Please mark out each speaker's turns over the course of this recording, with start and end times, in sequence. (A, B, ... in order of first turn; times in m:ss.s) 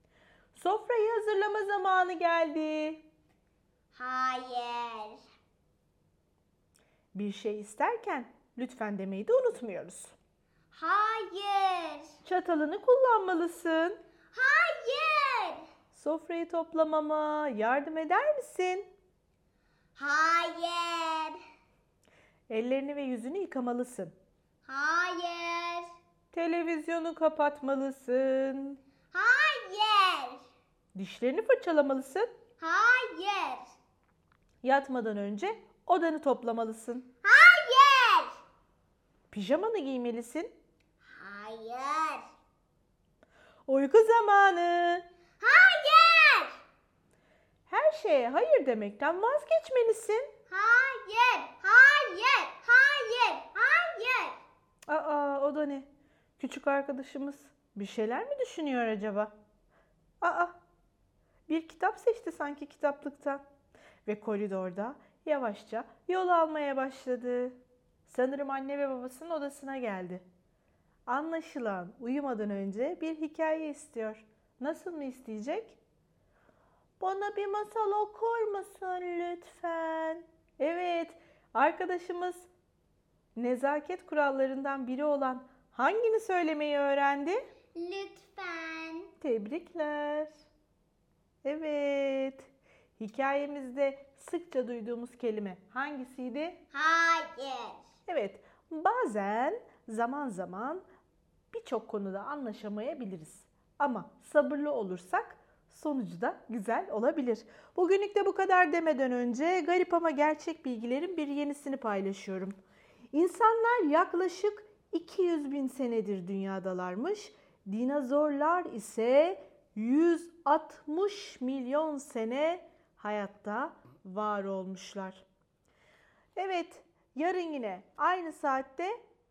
0:00.5-0:03.0 A
0:03.9-0:05.2 B
0:07.1-0:10.1 A
0:10.7-0:12.2 B
0:12.2-0:14.0 A
0:14.3-0:15.6 B
0:15.9-0:18.9 A
0:20.0-0:21.4 B
0:22.5-0:24.1 A
0:24.7-0:25.9 B
0:26.3-0:28.8 A
0:29.1-0:30.4 B
0:31.0-0:32.3 A
0:32.6-0:33.6 B
0:34.6-0:37.1 A
0:37.2-0:38.4 B
0:39.3-0:40.5 A
0:41.0-0:42.2 B
0:43.7-0:45.0 A
0:45.4-0:46.6 B
0:47.7-0:50.3 A
0:50.5-0:54.4 B
0:54.9-0:55.9 A
0:56.4-0:59.3 A
1:00.2-1:00.5 A
1:01.5-1:03.4 A
1:04.1-1:10.2 A
1:11.1-1:15.8 A
1:17.0-1:22.5 A
1:23.4-1:27.4 A
1:27.8-1:29.1 B
1:29.2-1:30.3 A
1:31.4-1:32.5 A
1:33.0-1:36.6 A
1:36.7-1:37.8 B
1:38.1-1:40.8 A
1:41.5-1:52.6 A
1:53.1-2:05.2 A
2:06.4-2:09.0 A